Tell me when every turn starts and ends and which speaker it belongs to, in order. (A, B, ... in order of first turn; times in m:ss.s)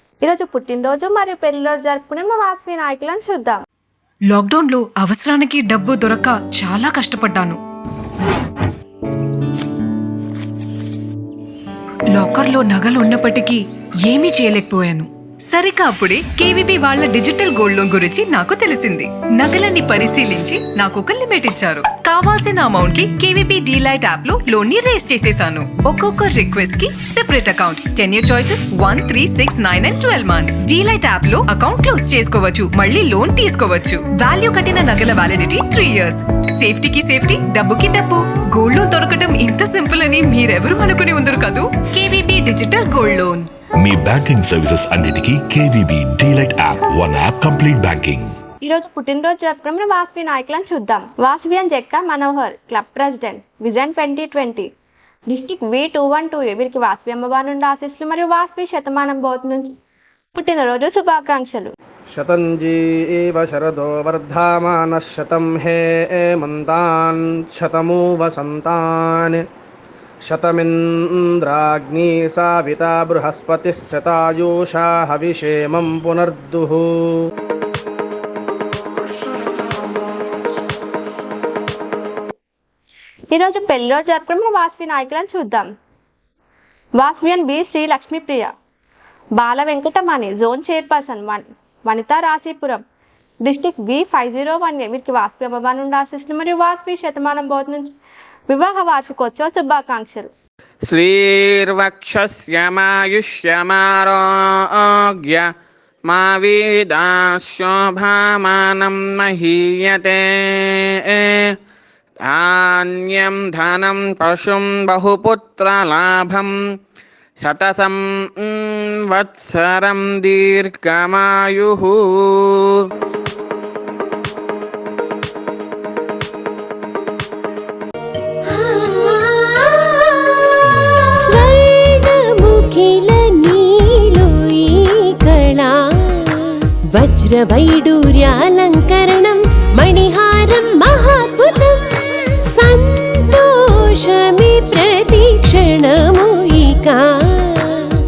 0:00.2-0:03.6 A
0:04.3-0:07.6 B
0:12.1-0:43.5 B
0:43.8-0:48.2 C
0:48.6-0:54.7 A
0:55.3-0:59.8 A
1:00.3-1:01.7 A
1:02.1-1:09.4 D
1:10.3-1:16.9 D
1:23.3-1:25.7 A
1:27.0-1:28.5 A
1:29.4-1:32.8 A
1:33.4-1:37.9 A
1:38.5-1:40.3 A
1:40.9-1:45.5 E
1:46.1-1:51.6 E
1:52.2-1:56.5 E
1:57.4-2:02.8 E
2:08.5-2:27.9 F